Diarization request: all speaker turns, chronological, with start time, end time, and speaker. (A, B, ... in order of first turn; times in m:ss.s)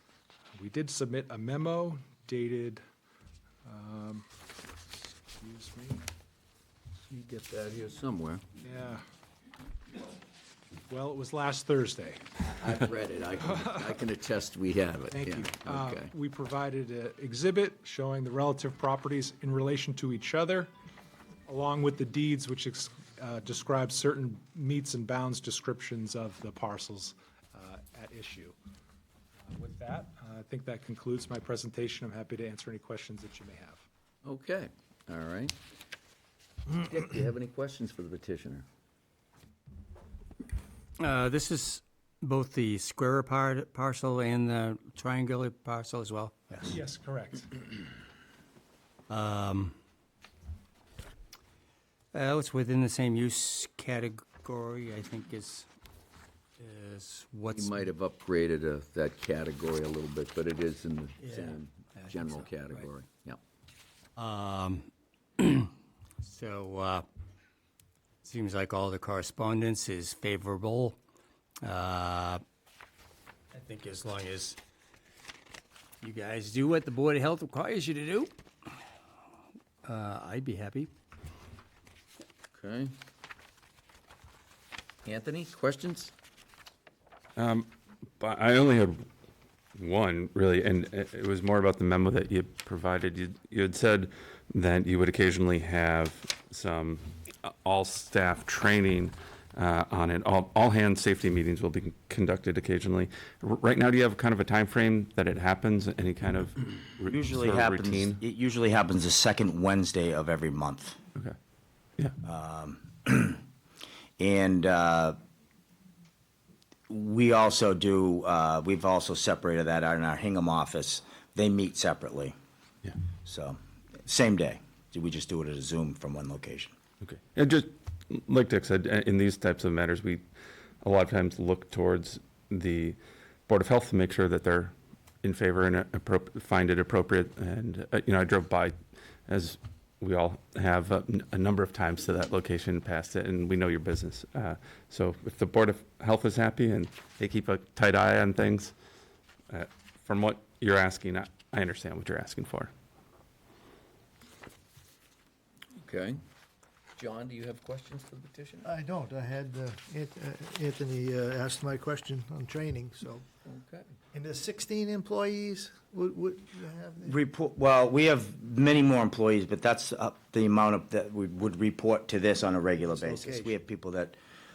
0:00.5-0:02.8 A
0:03.6-0:04.2 A
0:05.3-0:06.0 A
0:07.1-0:08.4 B
0:08.6-0:09.0 A
0:10.9-0:12.2 A
0:12.4-0:16.1 B
0:13.6-0:13.8 A
0:15.1-0:20.7 A
0:21.4-0:28.6 A
0:29.5-0:33.8 A
0:34.2-0:35.6 B
0:36.7-0:38.6 B
0:41.0-0:46.6 C
0:46.7-0:47.5 A
0:49.1-0:49.8 C
0:52.1-0:55.7 C
0:56.6-0:57.9 C
0:57.5-1:03.4 B
1:01.3-1:02.4 C
1:04.2-1:07.1 C
1:08.2-1:11.0 C
1:11.6-1:12.4 C
1:13.5-1:14.6 C
1:16.0-1:18.4 C
1:19.8-1:20.9 C
1:22.5-1:22.9 B
1:25.0-1:26.1 B
1:27.4-1:27.7 D
1:28.2-1:29.0 D
1:29.8-1:48.2 D
1:47.1-1:51.0 E
1:52.2-1:53.4 E
1:54.2-1:55.2 E
1:56.9-2:02.3 E
2:03.2-2:06.7 E
2:07.0-2:10.2 D
2:10.8-2:18.8 D
2:19.3-2:28.7 D
2:29.5-2:32.7 D
2:35.8-2:36.2 B
2:37.0-2:38.7 B
2:38.6-2:43.2 F
2:43.4-2:43.9 B
2:44.1-2:47.2 F
2:47.0-2:54.2 E
2:52.8-2:53.5 F